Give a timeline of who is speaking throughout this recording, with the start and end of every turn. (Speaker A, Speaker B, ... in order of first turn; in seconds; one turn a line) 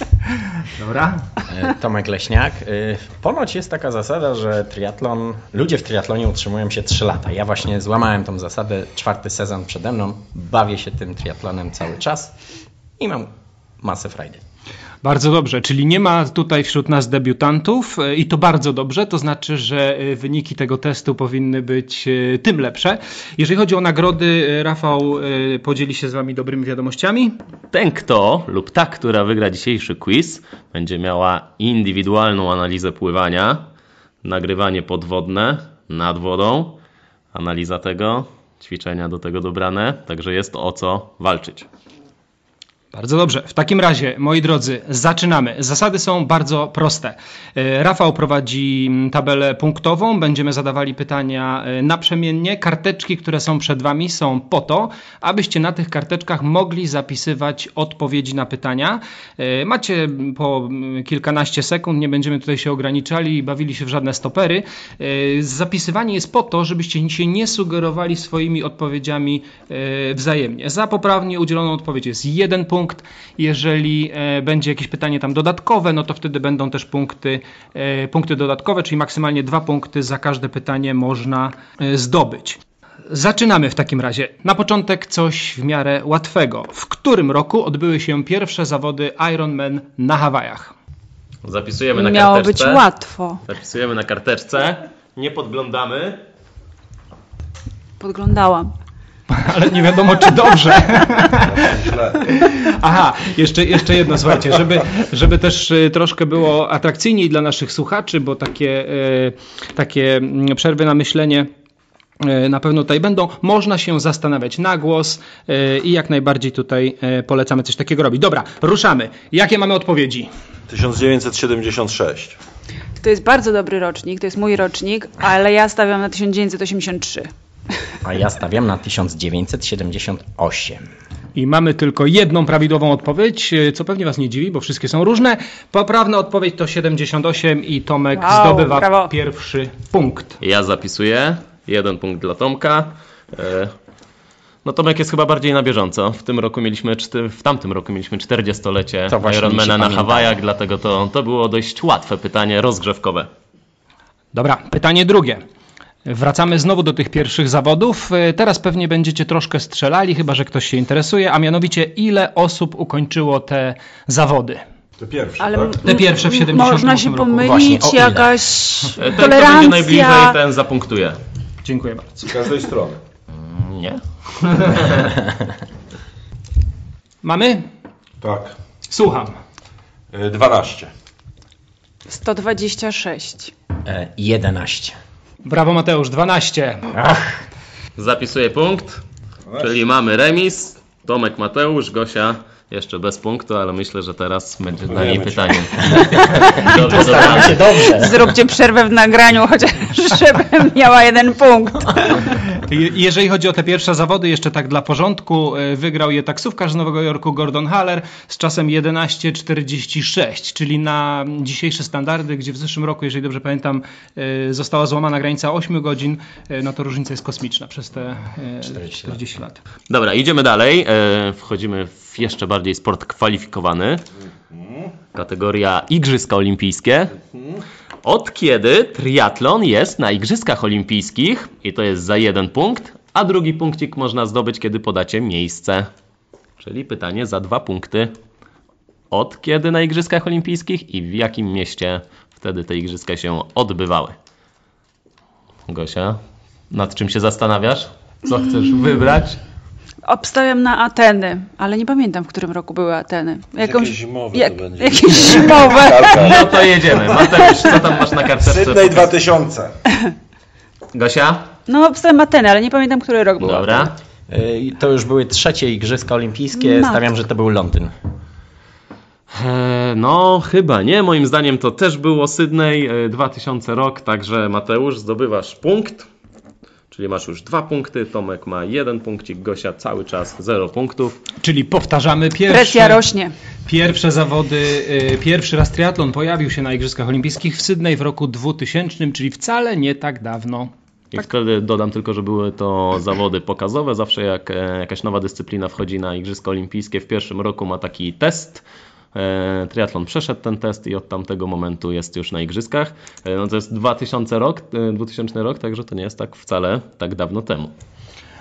Speaker A: 0.6-1.3
Speaker B: 1.5-12.3
Speaker B: 13.0-14.4
Speaker A: 15.0-27.4
Speaker C: 27.7-33.6
Speaker C: 34.2-36.8
Speaker C: 37.3-41.7
Speaker A: 42.9-90.7
Speaker C: 91.4-92.8
Speaker D: 91.9-93.4
Speaker C: 93.5-96.2
Speaker D: 98.0-98.7
Speaker A: 99.3-101.6
Speaker E: 101.4-102.3
Speaker A: 102.3-111.5
Speaker A: 112.2-120.3
Speaker E: 120.7-122.4
Speaker D: 123.0-127.3
Speaker B: 128.0-130.8
Speaker A: 131.4-140.4
Speaker D: 138.2-139.1
Speaker C: 140.4-143.7
Speaker C: 144.6-153.3
Speaker B: 149.1-150.4
Speaker A: 154.3-155.4
Speaker A: 156.1-164.6
Speaker E: 165.0-165.8
Speaker D: 165.4-170.4
Speaker A: 165.8-167.7
Speaker B: 167.3-168.3
Speaker C: 169.0-171.2
Speaker A: 171.7-172.3
Speaker E: 172.2-173.0
Speaker C: 173.3-175.2
Speaker A: 177.2-177.7
Speaker E: 178.2-178.6
Speaker A: 178.9-179.4
Speaker E: 180.1-180.9
Speaker D: 182.1-183.5
Speaker B: 183.8-185.0
Speaker A: 185.4-186.9
Speaker B: 186.9-187.4
Speaker C: 188.0-189.0
Speaker C: 189.6-197.9
Speaker E: 194.9-196.0
Speaker B: 195.8-198.3
Speaker D: 197.4-202.2
Speaker A: 202.3-219.6
Speaker B: 218.6-219.2
Speaker C: 219.9-224.0
Speaker E: 224.5-224.9
Speaker C: 225.1-227.2
Speaker E: 227.3-227.6
Speaker C: 228.0-235.9
Speaker C: 236.6-238.1
Speaker C: 239.1-244.2
Speaker C: 245.7-246.2
Speaker C: 246.7-249.4
Speaker D: 250.1-256.4
Speaker E: 253.6-256.7
Speaker C: 256.1-259.1
Speaker E: 258.4-259.8
Speaker C: 260.9-261.5
Speaker D: 261.7-263.9
Speaker C: 263.4-263.9
Speaker B: 264.3-267.9
Speaker D: 266.6-267.0
Speaker C: 269.3-276.1
Speaker C: 276.9-281.2
Speaker A: 281.4-283.0
Speaker D: 282.5-283.3
Speaker A: 283.7-290.7
Speaker C: 291.1-307.7